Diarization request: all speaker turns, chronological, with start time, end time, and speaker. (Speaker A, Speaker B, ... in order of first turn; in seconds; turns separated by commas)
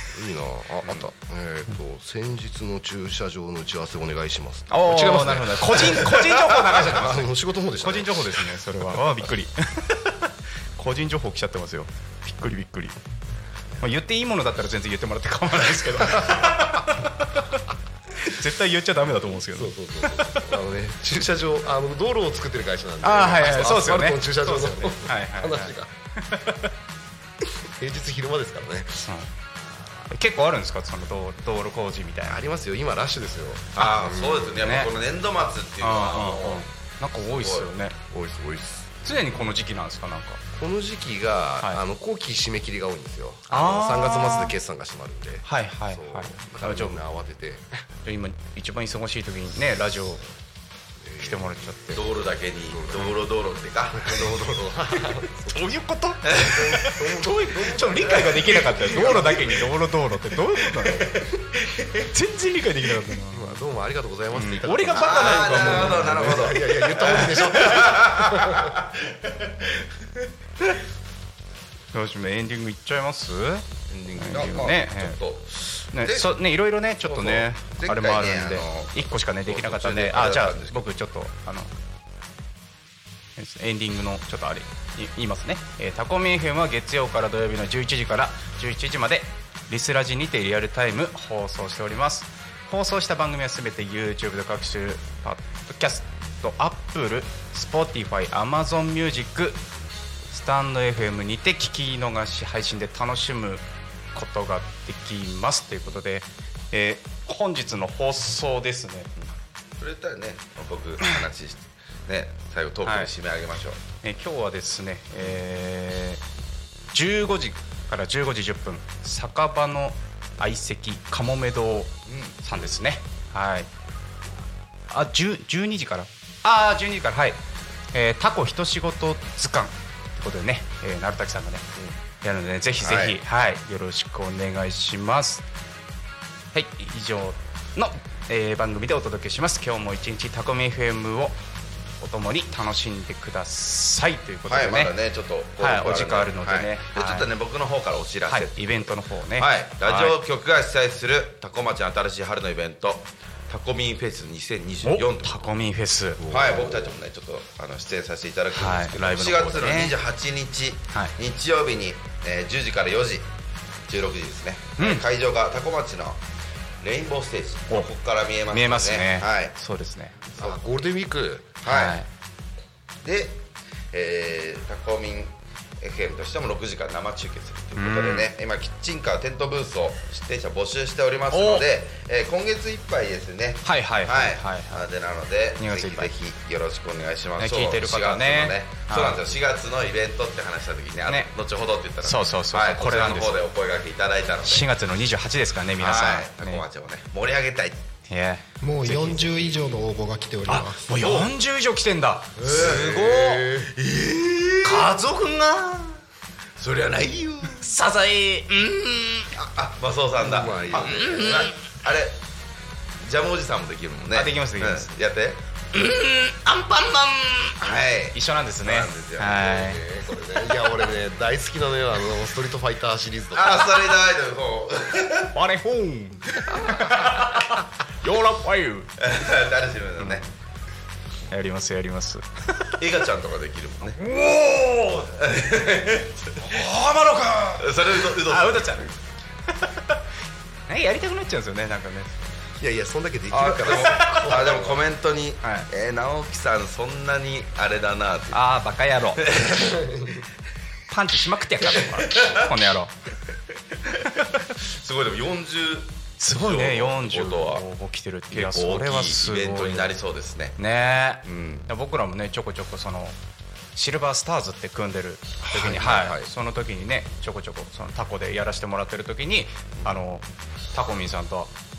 Speaker A: 0.1-8.4, Speaker B: 4.7-7.2, Speaker B: 7.8-13.0, Speaker B: 13.8-17.6, Speaker A: 16.3-16.7, Speaker B: 18.2-20.6, Speaker A: 19.2-25.9, Speaker B: 23.0-26.7, Speaker A: 27.4-30.1, Speaker B: 29.0-29.3, Speaker B: 30.1-32.4, Speaker A: 32.2-34.6, Speaker C: 33.8-36.6, Speaker B: 34.6-34.9, Speaker B: 35.8-38.0, Speaker C: 37.2-37.7, Speaker A: 38.1-39.3, Speaker B: 39.0-40.4, Speaker A: 40.5-47.9, Speaker B: 43.5-44.5, Speaker B: 45.4-47.0, Speaker B: 48.0-50.3, Speaker A: 51.0-51.8, Speaker B: 51.2-52.0, Speaker C: 51.9-54.3, Speaker A: 52.7-53.1, Speaker A: 53.9-55.7, Speaker B: 55.0-61.3, Speaker C: 56.2-56.7, Speaker A: 56.4-59.5, Speaker C: 57.8-59.6, Speaker C: 60.8-62.1, Speaker B: 62.0-63.6, Speaker A: 63.3-68.8, Speaker B: 64.3-66.6, Speaker C: 64.9-70.1, Speaker B: 67.6-68.0, Speaker B: 71.9-73.7, Speaker C: 73.9-76.4, Speaker B: 74.2-75.2, Speaker B: 75.9-81.7, Speaker C: 77.0-80.9, Speaker B: 83.4-99.6, Speaker B: 100.3-103.6, Speaker B: 104.1-109.1, Speaker C: 109.2-113.8, Speaker B: 112.8-113.1, Speaker B: 114.0-116.2, Speaker C: 115.1-115.4, Speaker B: 116.9-123.7, Speaker C: 122.1-122.7, Speaker B: 124.9-127.4, Speaker B: 127.9-131.7, Speaker B: 132.2-135.4, Speaker C: 132.8-133.2, Speaker B: 136.5-141.4, Speaker B: 142.0-144.9, Speaker C: 144.5-148.8, Speaker B: 145.6-147.3, Speaker B: 148.3-150.2, Speaker C: 149.4-155.5, Speaker B: 154.8-156.2, Speaker A: 156.2-156.9, Speaker C: 156.3-163.3, Speaker B: 158.5-159.9, Speaker C: 163.9-166.2, Speaker B: 164.8-165.0, Speaker C: 166.8-169.6, Speaker B: 168.5-170.3, Speaker A: 170.4-171.6, Speaker C: 171.6-172.0, Speaker B: 171.7-172.1, Speaker C: 173.0-194.7, Speaker B: 177.8-178.3, Speaker B: 181.3-181.7, Speaker B: 183.6-184.9, Speaker B: 185.6-186.1, Speaker B: 187.4-189.2, Speaker B: 192.0-193.4, Speaker B: 194.4-196.7, Speaker C: 195.8-197.8, Speaker B: 198.1-199.3, Speaker D: 198.6-200.9, Speaker B: 200.5-203.5, Speaker C: 201.0-201.3, Speaker C: 202.4-204.9, Speaker A: 202.5-203.7, Speaker B: 204.6-206.0, Speaker C: 206.6-207.7, Speaker B: 207.5-209.3, Speaker C: 209.3-212.2, Speaker A: 210.2-211.4, Speaker B: 210.7-211.6, Speaker C: 213.0-220.1, Speaker B: 214.1-215.0, Speaker B: 218.1-219.8, Speaker A: 219.8-223.9, Speaker C: 223.3-225.3, Speaker B: 225.3-228.9, Speaker C: 226.5-227.1, Speaker C: 229.0-230.2, Speaker B: 231.3-232.8, Speaker C: 232.8-234.0, Speaker B: 234.0-235.2, Speaker C: 235.0-238.9, Speaker B: 238.2-238.9, Speaker B: 239.5-240.0, Speaker B: 240.7-242.3, Speaker A: 242.6-244.8, Speaker C: 243.3-248.4, Speaker B: 243.9-244.3, Speaker B: 245.4-245.7, Speaker B: 248.3-249.4, Speaker C: 249.2-249.9, Speaker A: 249.7-250.2, Speaker B: 250.9-252.9, Speaker C: 251.8-252.5, Speaker C: 253.9-257.6, Speaker B: 256.2-259.9, Speaker C: 258.3-260.6, Speaker B: 260.6-263.2, Speaker C: 261.2-261.7, Speaker B: 263.8-271.5, Speaker A: 265.5-266.3